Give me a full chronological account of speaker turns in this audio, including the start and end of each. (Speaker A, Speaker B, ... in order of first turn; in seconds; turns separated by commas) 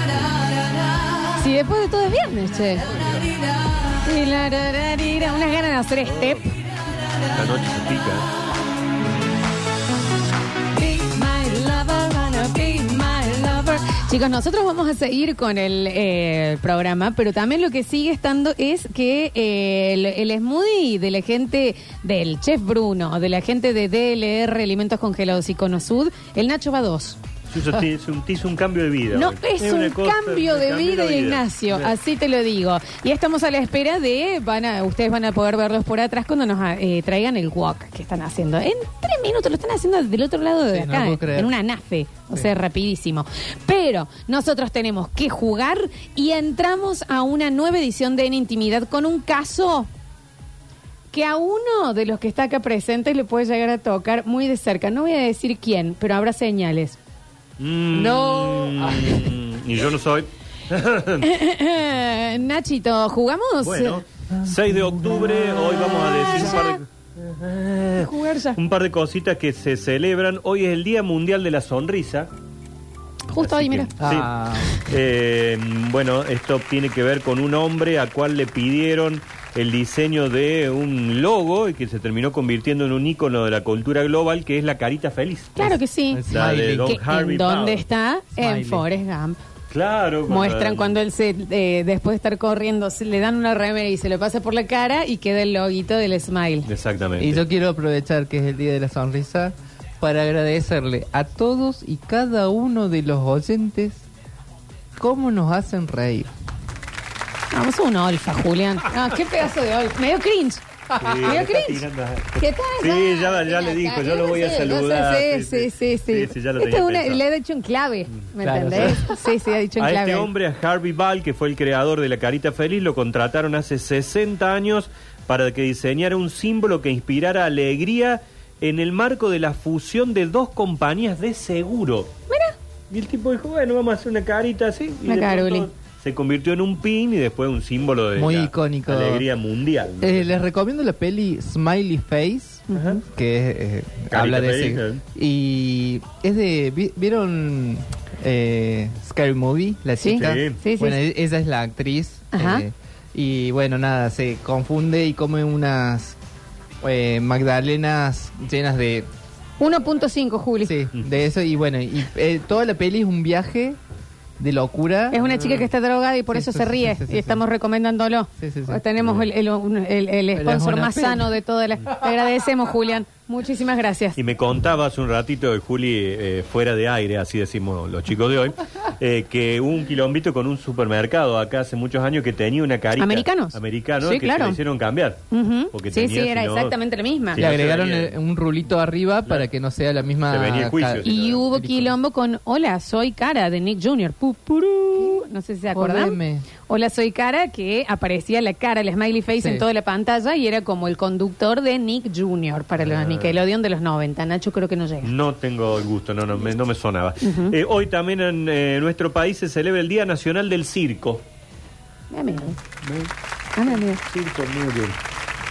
Speaker A: 1.3-3.0, Speaker A: 3.9-6.5, Speaker B: 6.1-6.4, Speaker B: 7.3-8.3, Speaker A: 10.8-27.2, Speaker B: 27.5-31.9, Speaker A: 29.1-49.9, Speaker C: 40.7-41.5, Speaker A: 51.1-57.0, Speaker B: 57.6-61.4, Speaker C: 57.9-59.3, Speaker A: 61.2-64.0, Speaker B: 63.6-72.3, Speaker C: 64.3-65.5, Speaker A: 66.0-66.8, Speaker A: 68.0-68.6, Speaker A: 73.3-74.0, Speaker B: 73.4-85.7, Speaker C: 74.0-74.8, Speaker A: 85.6-89.4, Speaker C: 85.6-87.0, Speaker B: 86.3-87.9, Speaker C: 88.4-88.9, Speaker B: 89.7-91.0, Speaker A: 90.3-96.7, Speaker B: 96.7-97.4, Speaker C: 97.2-104.0, Speaker C: 105.0-106.3, Speaker A: 107.5-111.8, Speaker B: 111.0-117.2, Speaker A: 112.4-120.3, Speaker C: 118.4-119.2, Speaker B: 119.8-132.1, Speaker A: 132.3-132.6, Speaker B: 132.9-140.3, Speaker A: 135.1-135.7, Speaker C: 138.2-139.3, Speaker C: 140.0-156.2, Speaker A: 142.7-143.0, Speaker B: 142.7-143.0, Speaker B: 144.1-145.0, Speaker A: 150.0-151.0, Speaker B: 150.2-150.6, Speaker A: 152.3-152.7, Speaker C: 156.8-159.1, Speaker A: 159.6-160.7, Speaker C: 160.6-163.8, Speaker C: 164.4-165.2, Speaker A: 165.1-174.2, Speaker B: 165.3-165.7, Speaker C: 166.3-167.4, Speaker C: 168.4-168.8, Speaker C: 170.3-171.3, Speaker B: 174.2-186.8, Speaker A: 183.0-184.6, Speaker A: 185.3-187.4, Speaker B: 187.3-188.1, Speaker C: 187.4-191.9, Speaker B: 190.3-191.5, Speaker A: 191.0-205.1, Speaker C: 195.7-196.5, Speaker C: 199.4-199.7, Speaker B: 202.8-203.4, Speaker B: 205.0-211.2, Speaker A: 207.2-207.6, Speaker A: 212.1-212.6, Speaker B: 212.8-213.1, Speaker A: 213.6-214.0, Speaker B: 213.9-215.0